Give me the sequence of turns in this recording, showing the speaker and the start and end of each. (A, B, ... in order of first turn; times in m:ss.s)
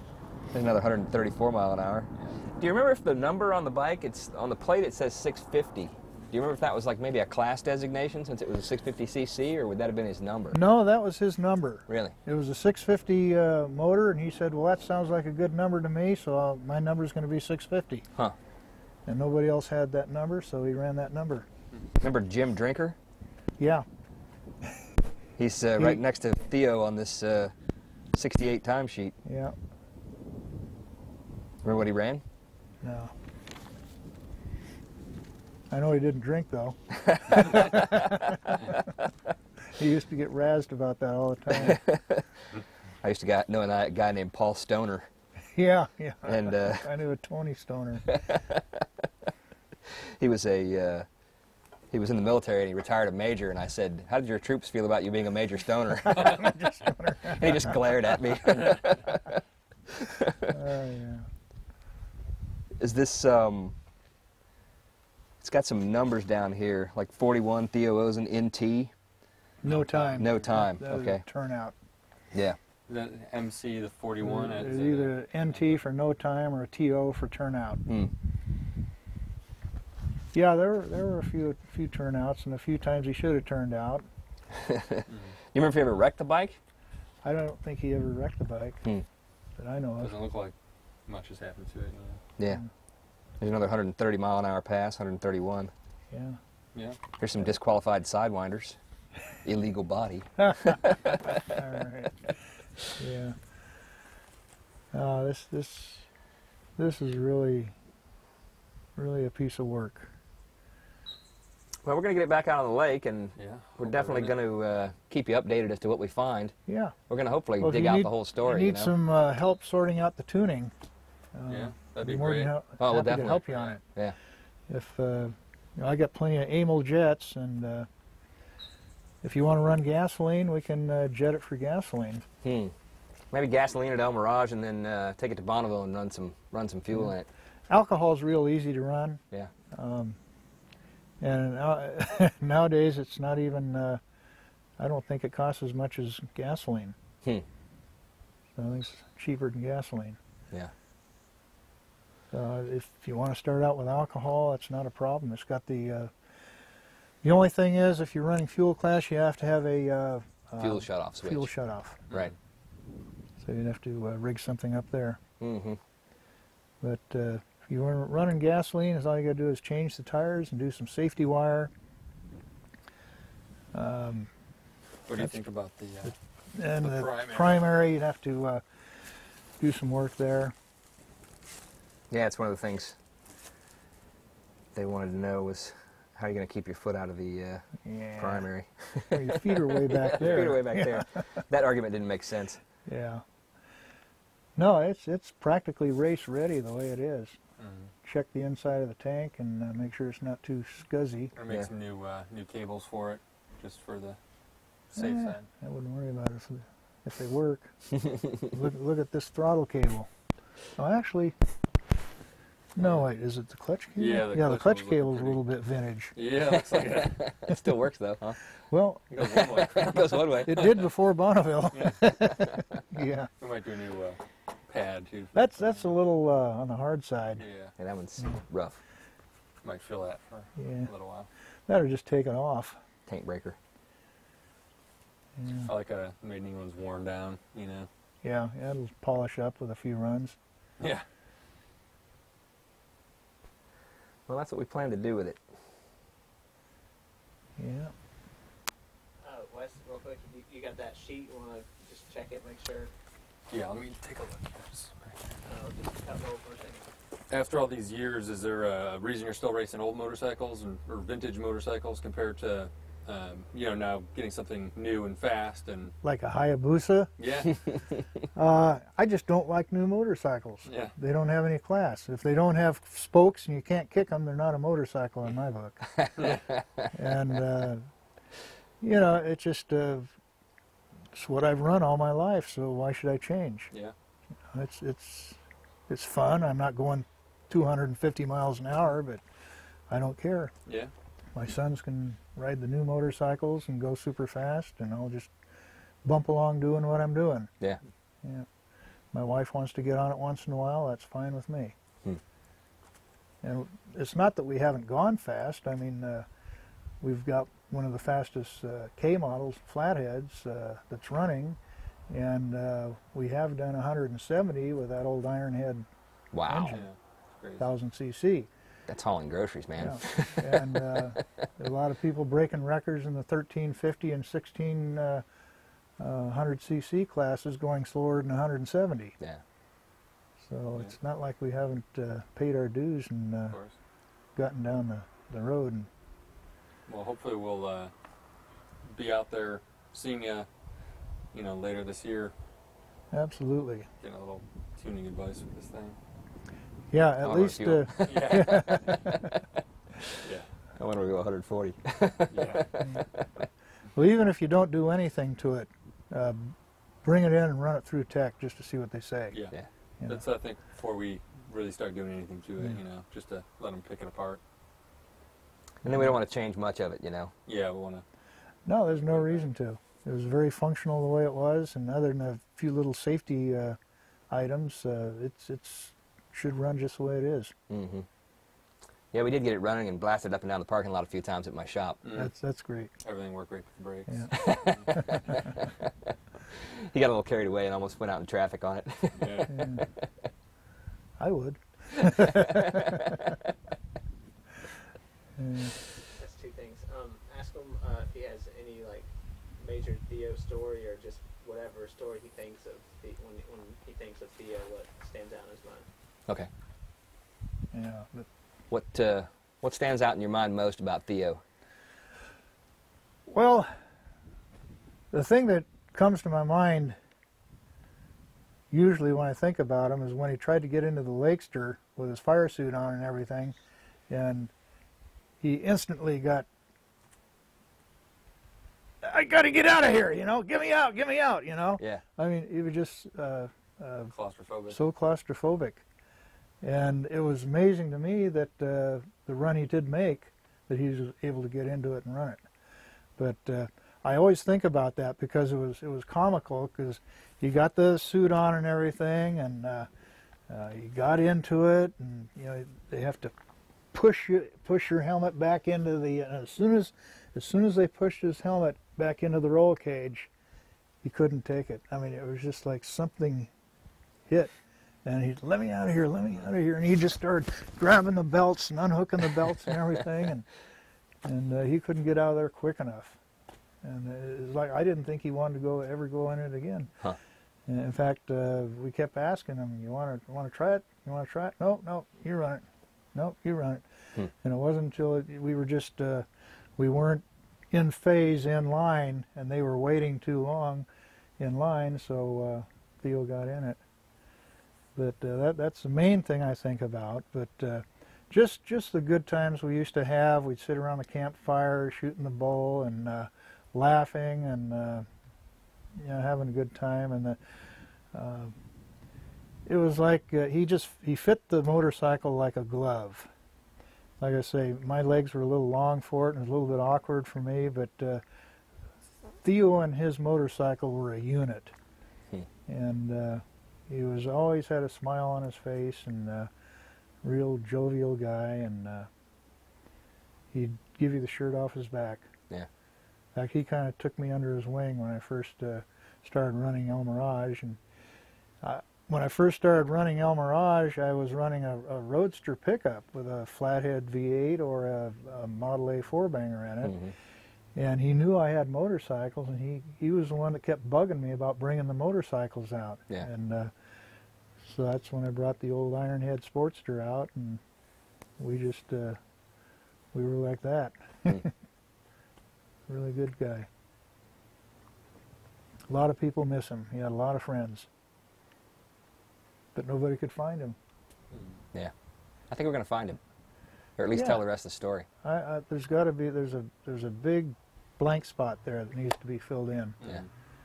0:00.5-0:10.6 A
0:02.1-0:02.4 B
0:10.5-0:18.1 C
0:11.9-0:12.2 A
0:19.0-0:21.5 C
0:22.0-0:23.0 A
0:23.6-0:23.8 C
0:25.4-0:27.5 A
0:28.1-0:29.1 A
0:29.2-0:29.5 C
0:31.6-0:32.2 A
0:32.8-0:33.1 C
0:35.7-0:38.8 C
0:37.0-0:38.3 A
0:39.7-0:41.8 C
0:41.5-0:42.2 A
0:43.0-0:45.1 A
0:45.5-0:48.1 C
0:46.2-0:46.9 A
0:48.0-0:49.0 A
0:49.8-0:51.0 A
0:51.9-0:56.5 A
0:56.0-0:57.8 C
0:57.2-1:00.5 A
1:00.4-1:01.3 C
1:02.8-1:03.8 A
1:05.4-1:08.9 A
1:09.6-1:11.7 C
1:09.6-1:10.4 B
1:10.1-1:11.2 A
1:12.9-1:15.5 B
1:14.2-1:17.8 C
1:17.9-1:18.1 A
1:20.3-1:24.0 C
1:24.5-1:26.6 A
1:27.2-1:28.8 C
1:29.6-1:30.1 C
1:30.0-1:30.5 B
1:31.1-1:32.2 B
1:33.4-1:35.7 A
1:36.1-1:36.4 C
1:37.2-1:38.8 A
1:39.4-1:41.5 A
1:40.4-1:42.4 C
1:42.9-1:43.4 C
1:44.9-1:46.0 C
1:46.8-1:47.7 C
1:49.0-1:50.1 C
1:51.8-1:56.5 A
1:53.4-1:54.4 B
1:56.7-1:57.0 C
1:57.1-1:58.9 A
1:57.6-2:00.7 C
2:01.3-2:03.8 C
2:01.5-2:02.5 B
2:02.8-2:04.2 A
2:03.3-2:03.8 B
2:04.7-2:07.9 C
2:09.2-2:12.2 C
2:12.4-2:12.7 A
2:13.3-2:17.3 A
2:17.7-2:19.2 C
2:19.7-2:20.2 C
2:21.2-2:24.0 C
2:24.8-2:27.0 C
2:28.6-2:30.2 C
2:32.3-2:36.1 C
2:37.2-2:42.0 C
2:40.6-2:41.5 A
2:43.4-2:45.2 C
2:45.4-2:45.8 A
2:46.8-2:51.7 C
2:53.7-2:54.3 C
2:55.1-2:56.1 B
2:56.0-2:58.6 C
2:56.8-2:57.7 B
2:59.6-3:00.5 C
3:02.1-3:03.0 A
3:04.7-3:07.7 A
3:07.8-3:08.4 C
3:08.2-3:12.6 A
3:09.0-3:11.4 C
3:10.2-3:10.5 B
3:12.8-3:13.2 C
3:14.6-3:17.4 C
3:17.6-3:17.9 B
3:18.0-3:21.3 C
3:21.4-3:24.2 B
3:24.9-3:25.4 B
3:25.0-3:27.7 C
3:28.4-3:30.1 C
3:30.8-3:31.3 C
3:32.8-3:36.1 C
3:32.8-3:33.1 B
3:34.0-3:35.4 B
3:36.1-3:37.2 B
3:37.2-3:38.4 A
3:38.7-3:39.4 C
3:39.1-3:40.8 B
3:39.2-3:40.5 A
3:40.4-3:43.3 C
3:41.7-3:42.0 B
3:43.4-3:45.8 B
3:45.3-3:47.4 C
3:47.4-3:47.7 B
3:47.8-3:48.8 A
3:49.6-3:51.3 B
3:50.6-3:50.9 C
3:51.7-3:52.8 C
3:53.1-3:53.6 A
3:55.4-3:55.7 C
3:55.6-3:57.9 B
3:58.2-4:00.4 C
4:00.8-4:01.0 B
4:04.3-4:05.4 A
4:07.6-4:07.9 C
4:09.2-4:12.9 D
4:13.5-4:15.2 B
4:15.4-4:16.9 D
4:17.3-4:25.9 B
4:26.0-4:27.1 C
4:27.2-4:27.6 B
4:28.3-4:35.9 C
4:30.6-4:30.9 B
4:36.0-4:36.6 A
4:36.2-4:36.4 B
4:36.9-4:37.9 C
4:38.8-4:40.1 C
4:41.1-4:43.7 C
4:44.5-4:49.2 C
4:49.9-4:50.5 C
4:51.3-4:55.3 C
4:56.0-4:57.5 C
4:59.1-5:01.7 C
5:03.4-5:06.2 C
5:07.0-5:11.6 C
5:12.1-5:15.9 C
5:16.3-5:16.8 A
5:16.4-5:16.8 C
5:16.7-5:17.6 B
5:17.6-5:18.5 C
5:18.9-5:21.2 A
5:19.8-5:25.2 C
5:26.0-5:29.1 C
5:30.4-5:33.6 C
5:34.4-5:35.9 C
5:36.9-5:37.9 B
5:38.8-5:40.5 B
5:41.3-5:42.3 B
5:43.1-5:43.9 C
5:44.0-5:46.0 B
5:46.9-5:49.2 C
5:47.2-5:49.2 A
5:48.0-5:49.1 B
5:50.2-5:50.5 B
5:50.8-5:53.2 A
5:52.3-5:52.8 B
5:52.8-5:53.0 C
5:53.9-5:59.4 C
5:59.3-6:04.4 B
6:05.8-6:06.2 C
6:05.8-6:07.3 A
6:07.4-6:08.0 B
6:08.6-6:13.8 C
6:08.9-6:09.5 B
6:14.3-6:17.5 C
6:17.7-6:18.0 A
6:19.1-6:22.0 A
6:22.0-6:22.3 B
6:22.1-6:22.9 C
6:23.0-6:25.1 B
6:24.1-6:24.3 C
6:24.9-6:25.2 C
6:26.5-6:29.8 A
6:29.2-6:29.6 B
6:29.5-6:29.8 C
6:31.2-6:33.2 C
6:32.2-6:33.1 A
6:35.4-6:35.8 C
6:36.1-6:45.8 D
6:47.7-6:48.3 C
6:48.7-6:51.4 A
6:53.3-6:53.7 C
6:55.1-6:57.0 C
6:58.7-7:03.6 C
7:04.1-7:04.5 C
7:05.4-7:06.4 C
7:09.0-7:14.1 C
7:14.1-7:14.8 B
7:14.7-7:15.8 C
7:16.6-7:22.4 C
7:23.2-7:29.9 C
7:30.5-7:33.3 C
7:33.9-7:40.3 C
7:41.0-7:43.5 C
7:44.3-7:44.5 C
7:45.0-7:50.4 C
7:51.2-7:53.2 C
7:53.8-7:56.9 C
7:57.7-8:03.8 C
8:04.4-8:10.8 C
8:11.4-8:13.8 C
8:15.0-8:25.1 C
8:25.9-8:27.4 C
8:28.1-8:28.5 C
8:29.6-8:33.3 C
8:34.2-8:38.2 C
8:39.4-8:41.7 C
8:42.7-8:46.5 C
8:47.2-8:49.1 C
8:50.5-8:52.3 C
8:53.3-8:57.8 C
8:58.6-9:07.1 C
9:06.8-9:07.1 A
9:07.7-9:13.7 C
9:14.6-9:17.6 C
9:18.4-9:19.2 C
9:20.1-9:21.5 C
9:22.9-9:23.7 C
9:25.9-9:27.9 C
9:29.7-9:30.8 C
9:31.3-9:31.6 B
9:32.5-9:33.2 A
9:34.0-9:35.1 A
9:34.1-9:34.4 C
9:35.2-9:40.0 C
9:40.0-9:40.3 B